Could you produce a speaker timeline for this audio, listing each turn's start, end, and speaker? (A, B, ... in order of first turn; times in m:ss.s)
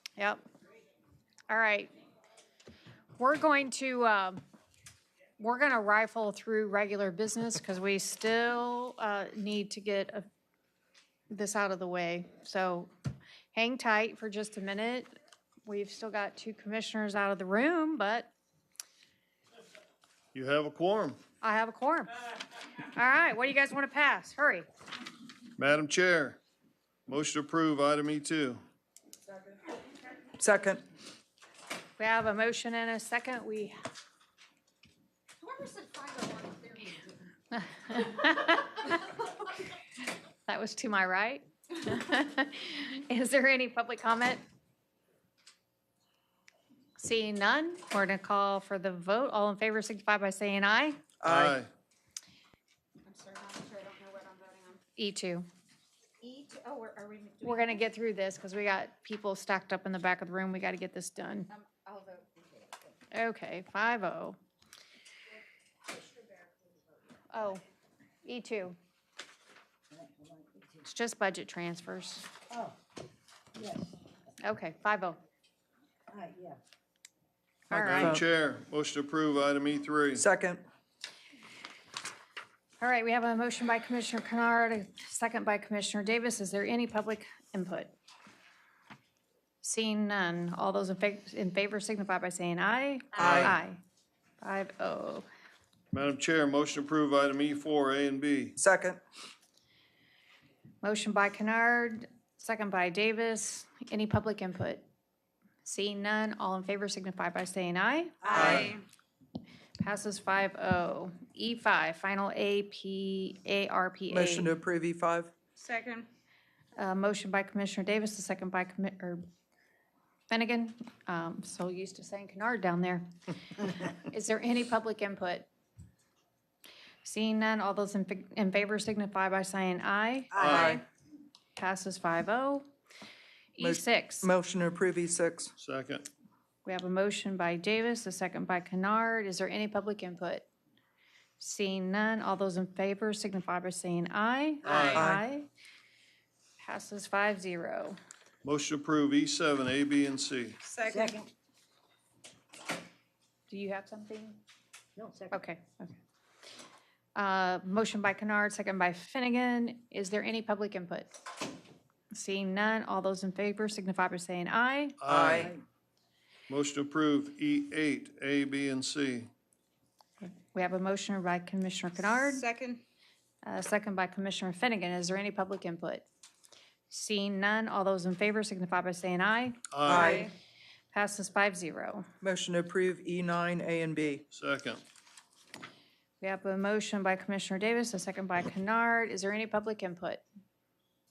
0:00.2-0:00.4 A
0:01.5-0:01.9 A
0:03.2-0:04.4 A
0:05.4-0:10.3 A
0:11.3-0:12.9 A
0:13.5-0:15.1 A
0:15.6-0:18.3 A
0:20.3-0:21.2 B
0:21.4-0:22.2 A
0:22.8-0:24.6 A
0:25.6-0:26.4 B
0:27.1-0:28.6 B
0:30.4-0:30.8 C
0:32.0-0:33.7 A
0:35.4-0:37.0 D
0:37.9-0:39.0 A
0:40.4-0:44.4 A
0:47.0-0:51.0 A
0:51.2-0:51.6 C
0:51.2-0:51.7 B
0:53.0-0:54.8 D
0:55.0-0:55.4 A
0:56.2-0:57.8 D
0:57.4-1:01.5 A
1:01.5-1:02.8 D
1:03.1-1:04.4 A
1:06.1-1:06.4 D
1:07.3-1:07.6 A
1:08.2-1:08.8 A
1:09.9-1:10.9 E
1:10.8-1:12.3 A
1:12.5-1:12.8 E
1:13.5-1:13.9 E
1:14.4-1:15.2 A
1:16.1-1:16.6 E
1:17.7-1:18.2 A
1:17.7-1:18.2 C
1:17.7-1:20.2 B
1:20.1-1:20.6 C
1:22.8-1:27.9 A
1:29.6-1:33.8 A
1:33.2-1:33.5 C
1:34.4-1:35.3 A
1:35.9-1:38.6 B
1:38.6-1:39.0 C
1:40.8-1:44.8 A
1:45.6-1:48.7 A
1:48.2-1:48.5 E
1:48.3-1:48.7 C
1:48.4-1:48.8 D
1:49.8-1:54.5 A
1:54.1-1:55.3 C
1:55.6-1:56.1 D
1:56.8-1:59.2 A
2:00.3-2:03.1 A
2:03.9-2:05.5 A
2:07.0-2:10.6 A
2:10.3-2:10.8 C
2:10.4-2:10.7 B
2:11.6-2:12.6 A
2:13.6-2:14.3 A
2:13.6-2:15.5 C
2:15.6-2:16.1 B
2:16.6-2:20.5 A
2:21.4-2:25.5 A
2:24.6-2:25.1 B
2:24.8-2:25.2 C
2:26.6-2:28.0 A
2:28.4-2:30.6 B
2:30.6-2:31.1 D
2:30.8-2:31.3 E
2:33.5-2:34.4 A
2:35.0-2:35.4 E
2:35.3-2:35.9 A
2:37.2-2:41.2 A
2:42.1-2:45.0 A
2:45.0-2:45.5 B
2:45.1-2:45.5 C
2:46.5-2:49.3 B
2:50.2-2:52.4 A
2:52.2-2:52.8 D
2:53.4-2:56.0 A
2:56.9-3:00.2 A
2:59.7-3:00.1 B
2:59.8-3:00.3 C
3:00.0-3:00.3 D
3:00.9-3:02.1 A
3:02.2-3:04.2 C
3:04.3-3:04.8 B
3:06.2-3:10.2 A